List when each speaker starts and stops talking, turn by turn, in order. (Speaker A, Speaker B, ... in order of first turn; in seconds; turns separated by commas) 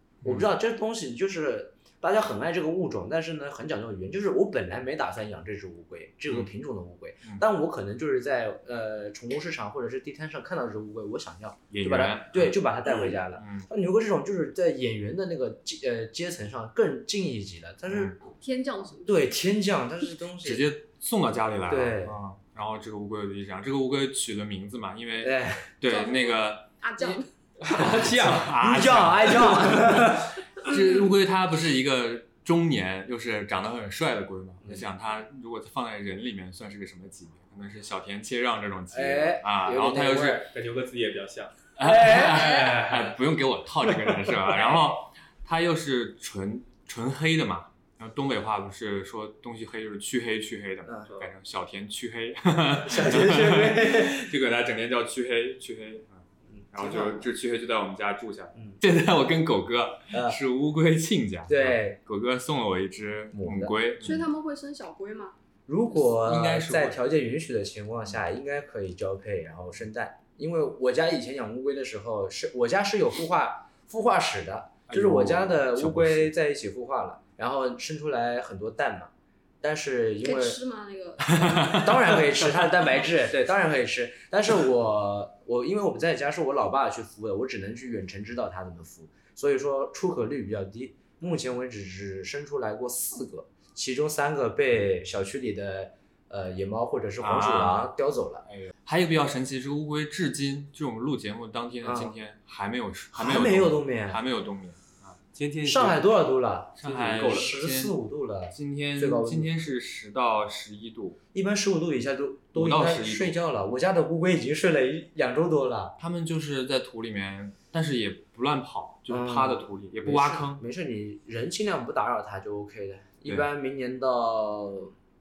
Speaker A: 0.2-0.5, Speaker B: 0.2-18.2, Speaker A: 11.7-12.6, Speaker A: 13.3-13.7, Speaker A: 17.9-18.2, Speaker C: 18.4-19.3, Speaker B: 19.1-20.6, Speaker A: 20.4-26.7, Speaker B: 21.7-22.2, Speaker B: 25.2-25.7, Speaker C: 25.8-27.3, Speaker D: 27.6-28.5, Speaker B: 27.6-30.4, Speaker A: 27.7-40.5, Speaker B: 34.6-34.9, Speaker B: 38.9-40.4, Speaker D: 40.4-41.6, Speaker A: 41.8-56.2, Speaker B: 41.8-42.9, Speaker D: 42.5-42.9, Speaker B: 50.8-51.1, Speaker B: 52.8-54.2, Speaker B: 56.5-57.3, Speaker A: 56.7-64.2, Speaker B: 60.1-60.4, Speaker B: 61.5-62.0, Speaker B: 63.3-63.7, Speaker C: 64.0-65.3, Speaker B: 65.7-79.1, Speaker A: 66.1-67.0, Speaker A: 74.9-76.3, Speaker B: 79.6-80.6, Speaker C: 80.2-81.8, Speaker A: 81.3-82.6, Speaker B: 81.6-98.4, Speaker A: 97.2-97.9, Speaker A: 98.5-105.2, Speaker B: 101.8-102.1, Speaker B: 103.1-104.2, Speaker D: 105.3-106.0, Speaker B: 105.6-109.5, Speaker A: 106.8-107.9, Speaker D: 106.8-107.5, Speaker A: 108.5-111.2, Speaker B: 111.3-115.9, Speaker A: 112.5-113.4, Speaker A: 116.0-120.6, Speaker B: 119.1-124.9